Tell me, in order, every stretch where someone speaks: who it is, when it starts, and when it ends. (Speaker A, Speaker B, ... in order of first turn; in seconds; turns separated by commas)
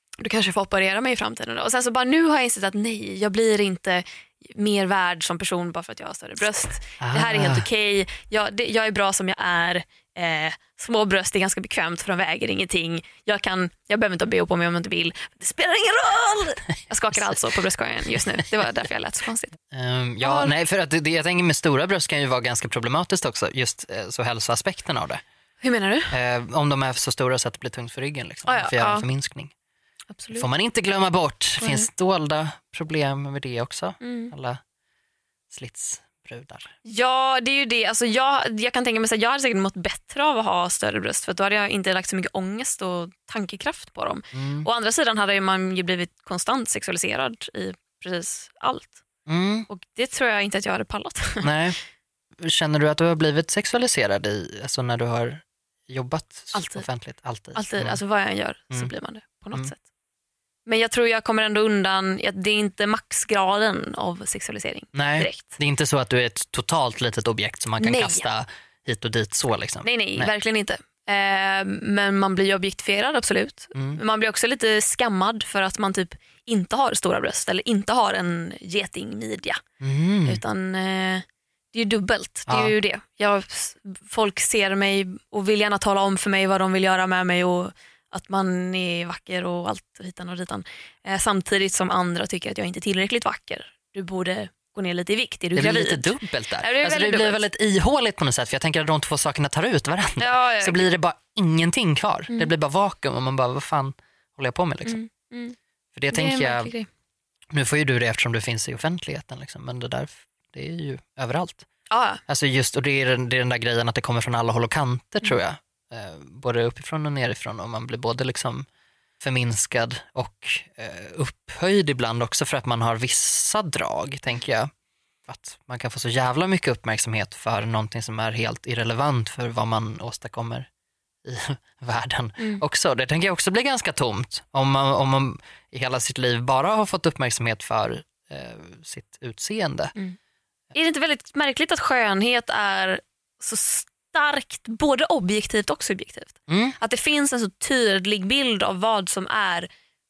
Speaker A: 0.2-19.5, Speaker B: 7.0-7.7, Speaker B: 19.7-25.2, Speaker A: 20.2-20.5, Speaker A: 25.6-26.1, Speaker B: 26.1-29.5, Speaker A: 28.5-29.1, Speaker A: 30.1-30.5, Speaker B: 30.4-34.6, Speaker A: 31.6-31.9, Speaker A: 34.0-34.3, Speaker B: 35.5-36.7, Speaker A: 36.8-49.0, Speaker B: 44.3-44.7, Speaker B: 49.3-49.7, Speaker A: 49.7-51.5, Speaker B: 51.4-51.8, Speaker B: 52.4-58.0, Speaker A: 56.5-56.9, Speaker A: 57.5-59.8, Speaker A: 60.7-65.6, Speaker B: 64.9-70.3, Speaker A: 67.8-68.3, Speaker A: 69.8-79.6, Speaker B: 73.8-74.0, Speaker B: 79.8-80.4, Speaker A: 80.2-97.4, Speaker B: 82.5-82.8, Speaker B: 95.5-105.0, Speaker A: 100.2-100.9, Speaker A: 104.8-105.6, Speaker B: 106.0-106.7, Speaker A: 106.1-106.9, Speaker B: 107.5-111.7, Speaker A: 111.9-112.2, Speaker B: 112.3-118.7, Speaker B: 119.2-124.7, Speaker B: 125.3-130.7, Speaker B: 131.2-139.9, Speaker A: 140.7-149.7, Speaker B: 146.5-146.8